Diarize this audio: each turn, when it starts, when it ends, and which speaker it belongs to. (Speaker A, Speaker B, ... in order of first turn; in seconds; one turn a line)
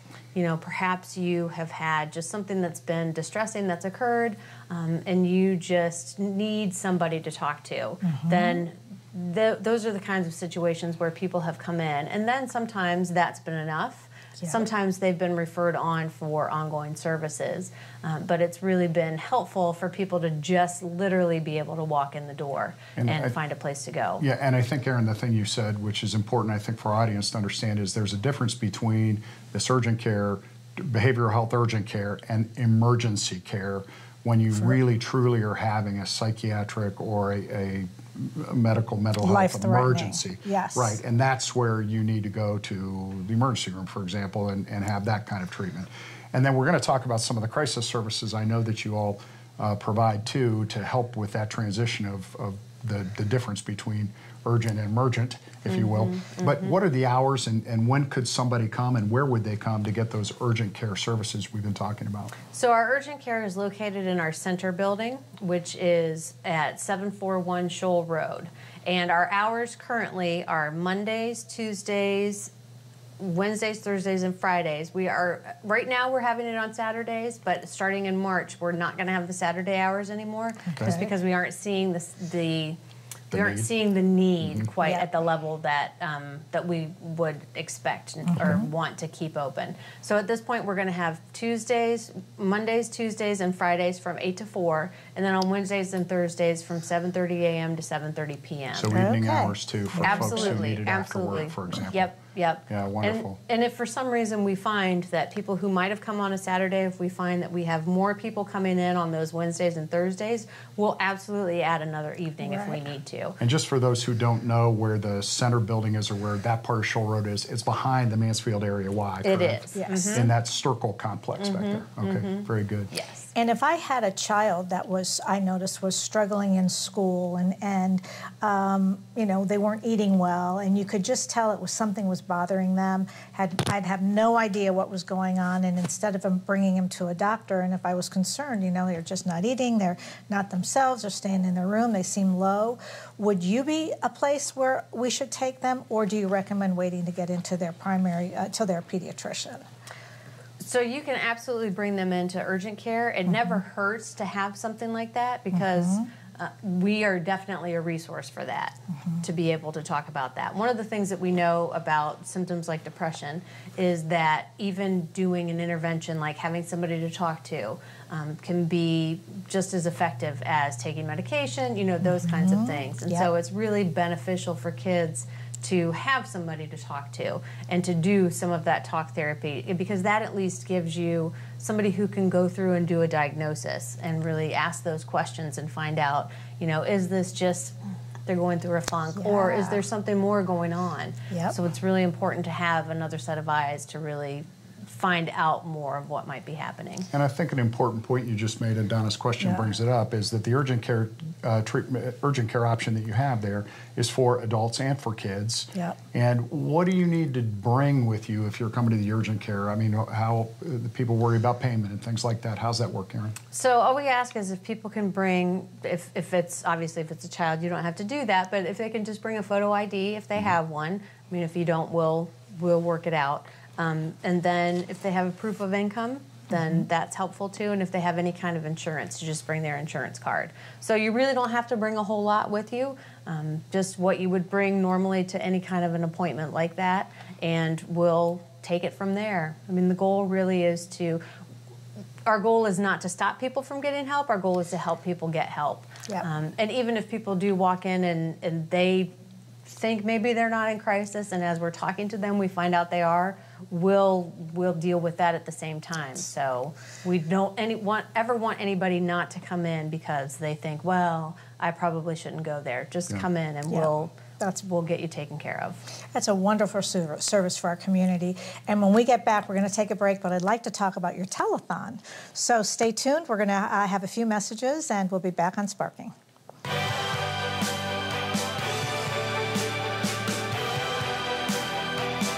Speaker A: 0.3-24.2
Speaker B: 8.0-8.6
Speaker C: 23.0-23.4
Speaker C: 24.2-62.3
Speaker B: 39.2-41.0
Speaker A: 55.7-56.8
Speaker A: 62.5-72.5
Speaker A: 73.2-82.8
Speaker B: 80.7-81.1
Speaker C: 83.3-83.7
Speaker A: 83.3-99.0
Speaker B: 84.8-85.1
Speaker B: 88.3-88.6
Speaker C: 98.8-102.1
Speaker B: 98.9-100.7
Speaker A: 100.0-113.4
Speaker C: 102.7-103.4
Speaker B: 112.4-112.9
Speaker C: 113.4-122.9
Speaker A: 119.2-120.3
Speaker B: 119.8-120.3
Speaker A: 121.4-123.3
Speaker B: 123.3-149.7
Speaker A: 150.6-187.8
Speaker B: 153.3-153.6
Speaker B: 155.5-156.1
Speaker B: 172.0-173.3
Speaker A: 188.3-197.1
Speaker B: 189.2-189.8
Speaker B: 191.3-191.6
Speaker C: 197.1-213.4
Speaker B: 199.4-199.7
Speaker A: 213.5-241.2
Speaker B: 226.5-226.8
Speaker A: 242.3-249.1
Speaker A: 249.7-265.8
Speaker B: 266.1-276.1